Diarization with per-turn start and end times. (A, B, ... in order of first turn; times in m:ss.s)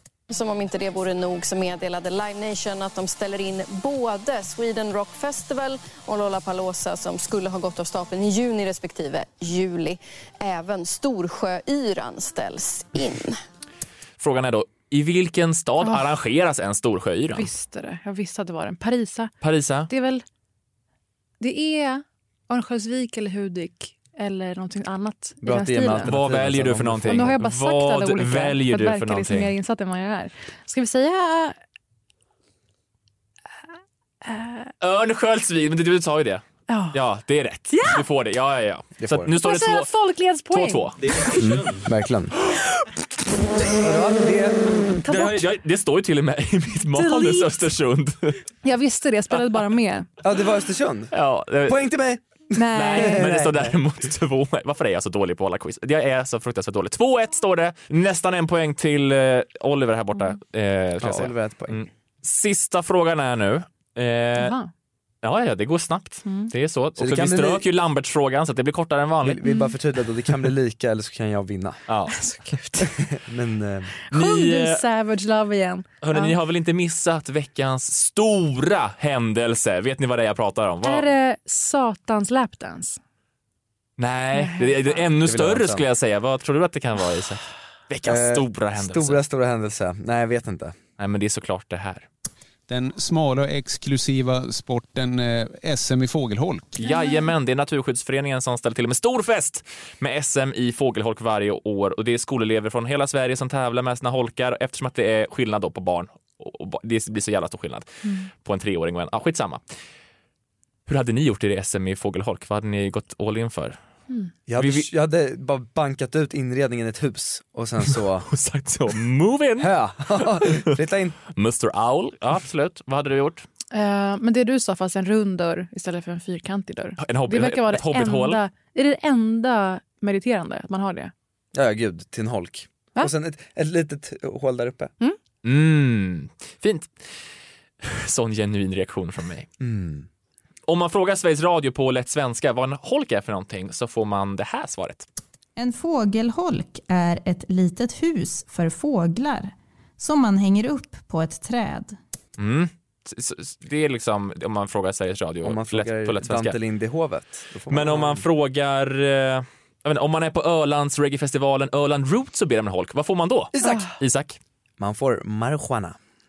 0:00.3-0:13.4 A
0:14.2-0:17.5 B
0:15.8-0:16.1 C
0:17.4-0:19.3 C
0:19.4-0:19.9 B
0:19.9-0:20.2 C
0:21.4-0:26.1 C
0:25.4-0:27.3 D
0:26.0-0:29.5 B
0:27.1-0:31.6 C
0:34.2-0:34.7 C
0:34.8-0:39.9 B
0:36.7-0:37.0 C
0:37.7-0:38.0 C
0:39.0-0:39.3 D
0:39.4-0:41.2 C
0:40.5-0:41.5 B
0:41.4-0:42.3 D
0:43.7-0:44.8 D
0:45.0-0:45.4 C
0:45.1-0:48.4 B
0:47.0-0:47.5 C
0:48.6-0:50.1 C
0:50.2-0:51.1 D
0:51.1-0:51.9 B
0:51.7-0:53.8 D
0:52.5-0:53.2 C
0:52.8-1:04.6 B
1:01.0-1:01.8 D
1:04.4-1:04.7 C
1:05.2-1:09.4 B
1:06.2-1:06.5 C
1:07.0-1:07.6 D
1:09.2-1:11.8 D
1:09.4-1:09.7 C
1:11.9-1:12.2 B
1:12.1-1:12.9 C
1:12.8-1:13.9 D
1:14.0-1:16.4 C
1:14.1-1:14.8 B
1:16.0-1:21.1 B
1:20.8-1:23.0 C
1:24.0-1:29.2 B
1:24.4-1:25.1 C
1:25.2-1:25.9 D
1:28.0-1:30.8 D
1:31.0-1:32.1 B
1:32.7-1:36.8 E
1:36.8-1:49.6 B
1:36.8-1:37.3 C
1:50.9-1:53.8 B
1:54.5-1:58.3 D
1:54.6-1:54.9 B
1:58.3-2:00.8 B
1:59.6-2:01.2 D
2:01.3-2:03.4 B
2:03.7-2:11.1 C
2:07.0-2:08.4 B
2:11.5-2:14.9 D
2:15.4-2:16.9 B
2:17.8-2:19.5 B
2:19.6-2:20.1 D
2:20.7-2:25.1 B
2:25.6-2:32.0 F
2:32.4-2:36.6 B
2:35.4-2:38.2 D
2:37.7-2:44.4 B
2:43.6-2:43.8 D
2:43.6-2:43.9 C
2:44.8-2:46.0 D